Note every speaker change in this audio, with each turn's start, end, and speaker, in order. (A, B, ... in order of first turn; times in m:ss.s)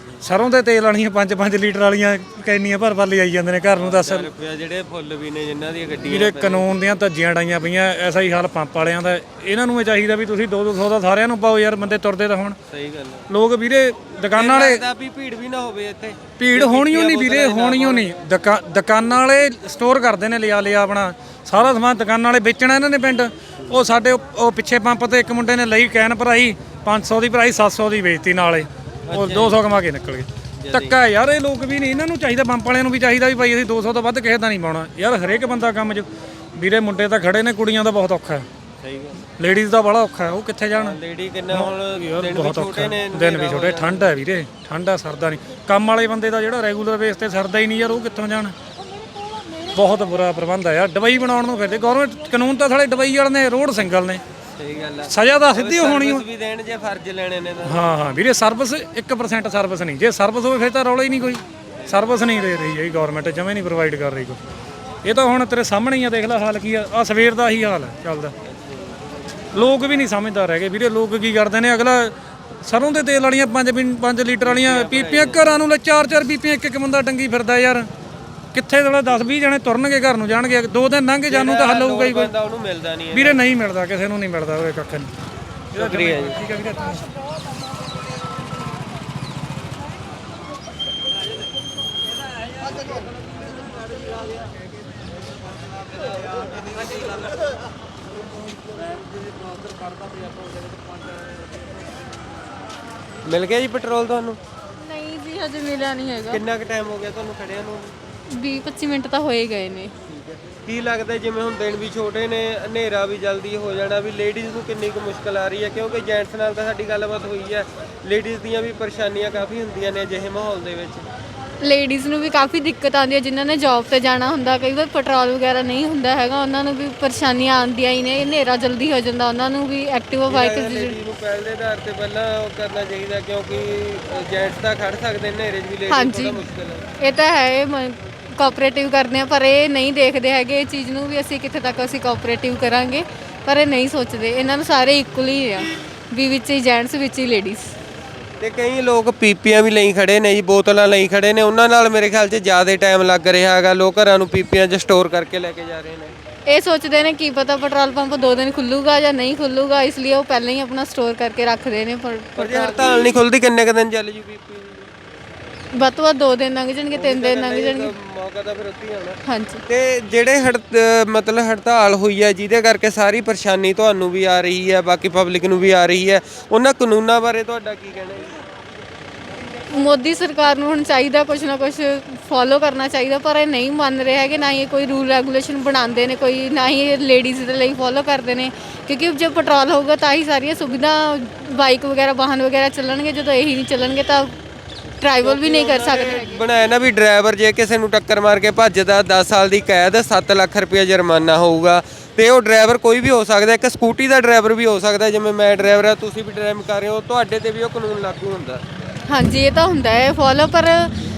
0:00.2-0:04.3 A
0:03.7-0:06.7 B
0:06.0-0:12.6 A
0:12.7-0:13.2 B
0:13.3-0:14.8 A
0:14.3-0:18.1 B
0:16.4-0:36.0 A
0:29.1-0:29.6 B
0:30.6-0:31.0 B
0:36.6-0:38.4 A
0:38.8-0:39.2 B
0:39.4-0:41.0 A
0:40.7-0:44.1 B
0:41.5-0:48.5 A
0:49.7-0:54.2 A
0:54.6-0:57.8 B
0:55.1-0:56.2 A
0:57.6-1:04.4 A
1:05.0-1:08.3 A
1:08.4-1:09.0 B
1:09.5-1:12.1 A
1:12.6-1:17.9 A
1:14.4-1:15.6 B
1:18.5-1:22.3 A
1:21.3-1:23.4 B
1:23.1-1:25.1 A
1:25.7-1:26.4 B
1:25.7-1:27.0 A
1:43.2-1:44.4 B
1:44.8-1:46.4 C
1:46.3-1:47.9 B
1:48.4-1:49.9 C
1:50.6-2:01.0 B
2:01.6-2:11.0 C
2:10.2-2:16.8 B
2:15.9-2:16.4 C
2:17.0-2:27.7 C
2:28.4-2:36.1 B
2:36.5-2:43.2 C
2:42.4-2:44.9 B
2:45.7-2:47.9 C
2:46.9-2:58.3 B
2:49.2-2:49.6 C
2:59.7-3:14.3 C
3:15.0-3:16.4 C
3:15.2-3:28.6 B
3:29.1-3:30.9 C